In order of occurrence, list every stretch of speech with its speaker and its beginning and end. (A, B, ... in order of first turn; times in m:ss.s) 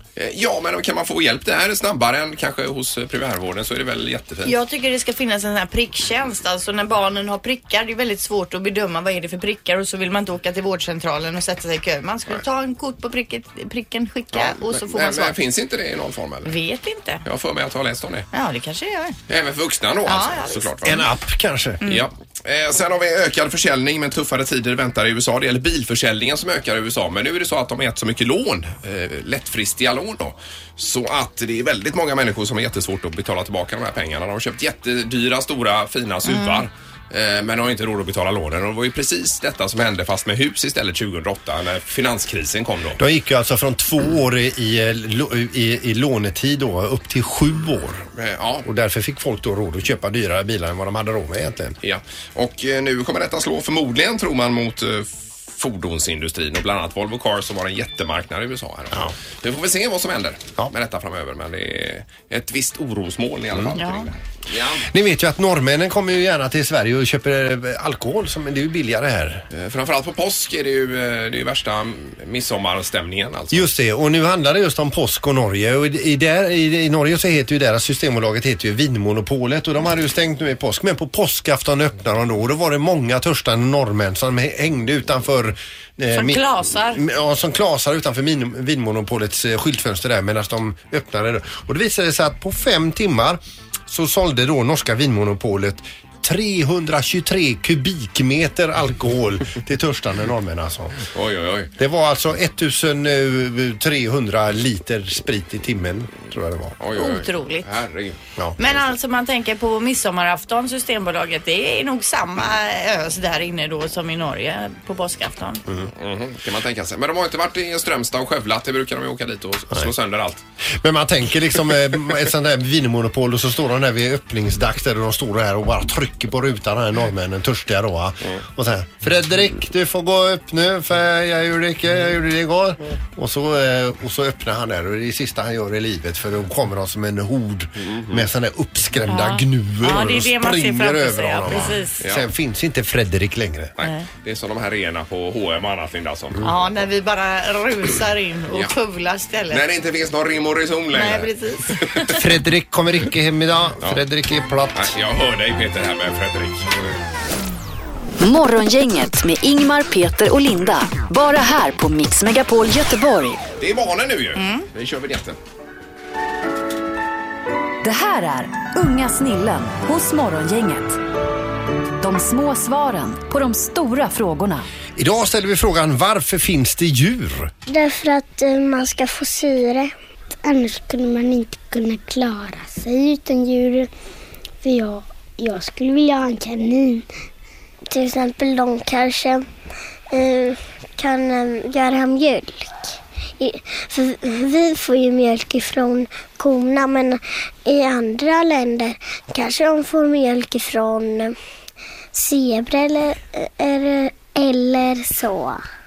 0:00.2-0:04.6 A
0:04.4-0:15.4 B
0:14.3-0:16.5 A
0:16.4-0:17.2 B
0:17.2-0:18.3 A
0:18.3-0:19.2 B
0:19.3-0:21.0 A
0:20.1-0:20.7 B
0:20.8-0:21.8 C
0:21.8-0:43.0 A
0:36.3-0:36.7 B
0:43.0-0:48.1 C
0:48.2-0:48.7 A
0:48.6-0:51.8 C
0:51.8-1:04.8 A
1:03.8-1:04.1 B
1:04.8-1:09.4 C
1:09.5-1:13.7 A
1:13.5-1:41.1 C
1:26.1-1:27.0 B
1:41.1-1:41.7 A
1:41.8-1:46.8 C
1:46.8-1:48.2 A
1:47.0-1:47.7 B
1:48.6-1:55.6 B
1:56.0-2:00.4 A
2:00.8-2:23.8 C
2:17.9-2:18.2 A
2:19.1-2:22.0 B
2:22.0-2:22.3 A
2:23.8-2:26.5 A
2:26.4-2:29.6 B
2:29.5-2:32.1 A
2:30.9-2:32.2 B
2:32.2-2:34.9 C
2:34.7-2:36.7 A
2:38.2-2:43.4 D
2:43.6-2:45.4 A
2:44.4-2:44.7 B
2:47.8-2:51.0 D
2:52.0-2:54.7 D
2:55.0-2:57.5 C
2:57.7-2:59.9 E
3:00.4-3:03.9 E
3:04.6-3:07.0 E
3:07.9-3:09.5 E
3:10.1-3:21.4 E
3:22.1-3:25.6 E